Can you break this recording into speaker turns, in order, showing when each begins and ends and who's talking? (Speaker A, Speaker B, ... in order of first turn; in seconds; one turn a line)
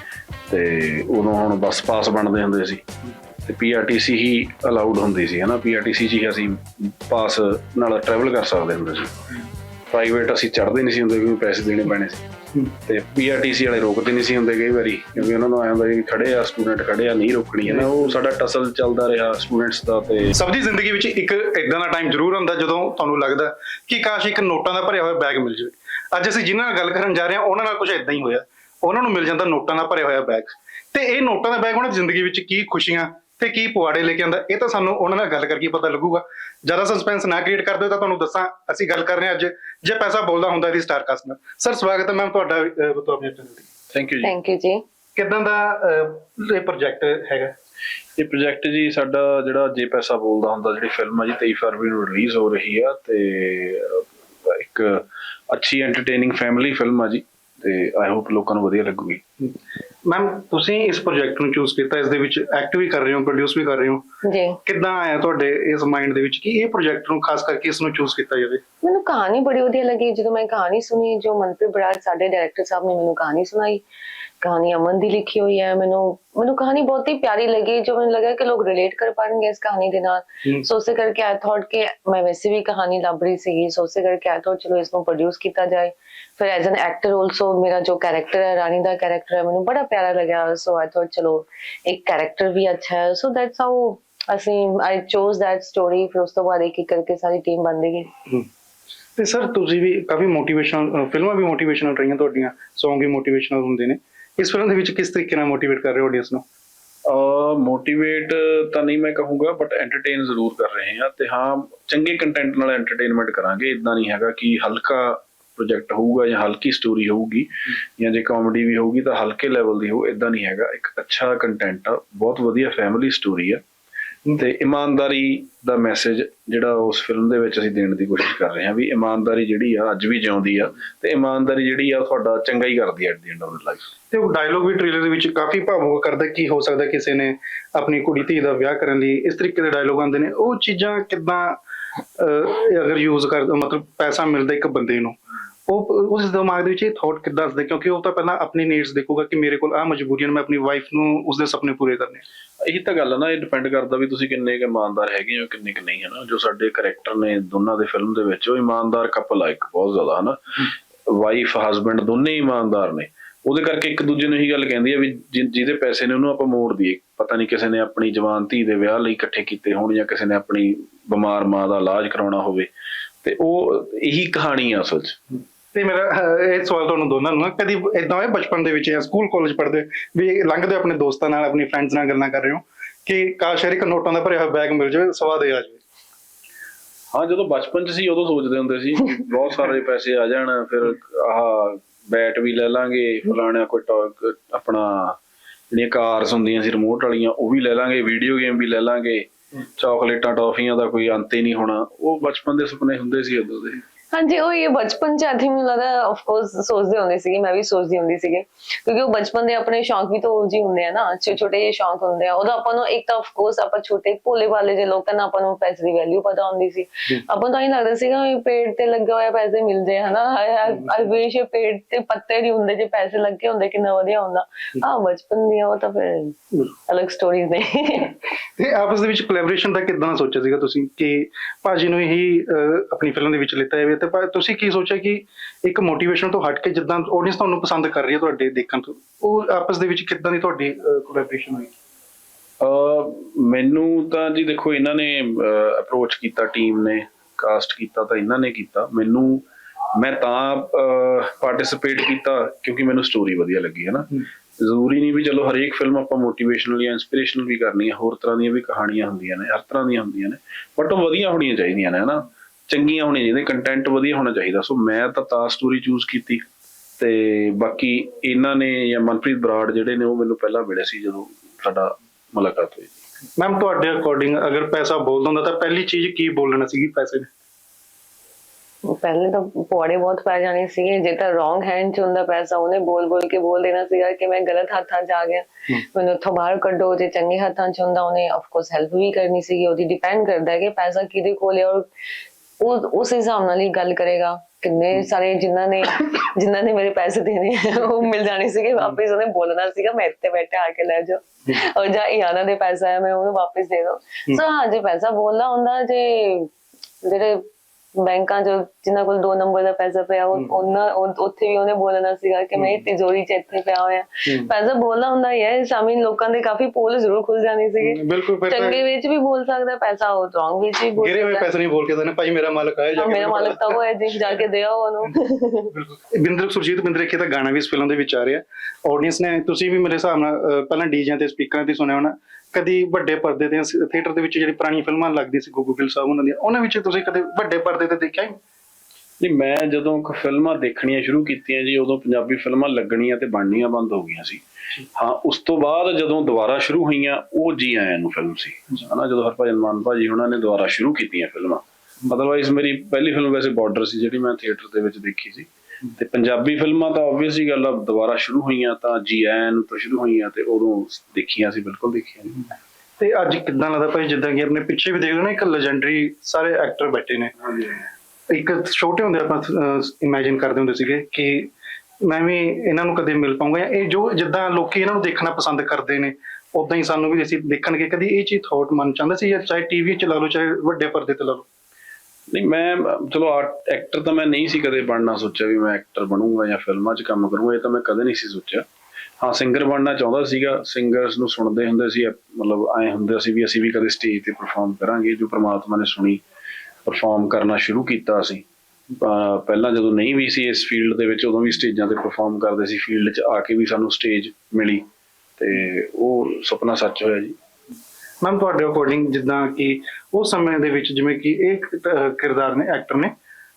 Speaker A: 0.5-2.8
Speaker A: 3.4-9.2
Speaker A: 9.9-12.3
Speaker A: 12.8-20.3
Speaker B: 17.6-17.9
Speaker B: 20.3-43.7
Speaker A: 43.9-44.3
Speaker C: 44.2-44.8
Speaker B: 45.1-47.5
Speaker A: 48.2-59.2
Speaker B: 59.4-64.0
Speaker C: 64.2-64.6
Speaker B: 64.7-68.6
Speaker C: 68.8-73.8
Speaker C: 74.4-98.1
Speaker B: 99.2-106.4
Speaker A: 107.1-123.6
Speaker A: 124.3-133.9
Speaker B: 134.1-141.6
Speaker B: 142.2-152.2
Speaker A: 152.6-172.7
Speaker A: 173.2-175.2
Speaker B: 175.7-185.8
Speaker A: 187.1-195.2
Speaker A: 195.7-203.8
Speaker C: 204.1-228.2
Speaker B: 228.6-241.7
Speaker A: 242.6-266.4
Speaker A: 267.0-272.9
Speaker B: 273.4-277.3
Speaker C: 278.8-291.9
Speaker C: 292.6-306.5
Speaker C: 307.0-321.5
Speaker B: 317.8-318.8
Speaker B: 321.0-323.8
Speaker C: 322.9-325.7
Speaker B: 325.7-338.4
Speaker A: 339.2-344.4
Speaker A: 344.9-362.4
Speaker B: 363.0-367.3
Speaker B: 368.3-371.5
Speaker B: 372.0-381.5
Speaker A: 382.3-388.6
Speaker A: 389.2-396.2
Speaker A: 396.9-398.4
Speaker A: 399.0-404.8
Speaker A: 405.4-407.4
Speaker B: 408.2-413.1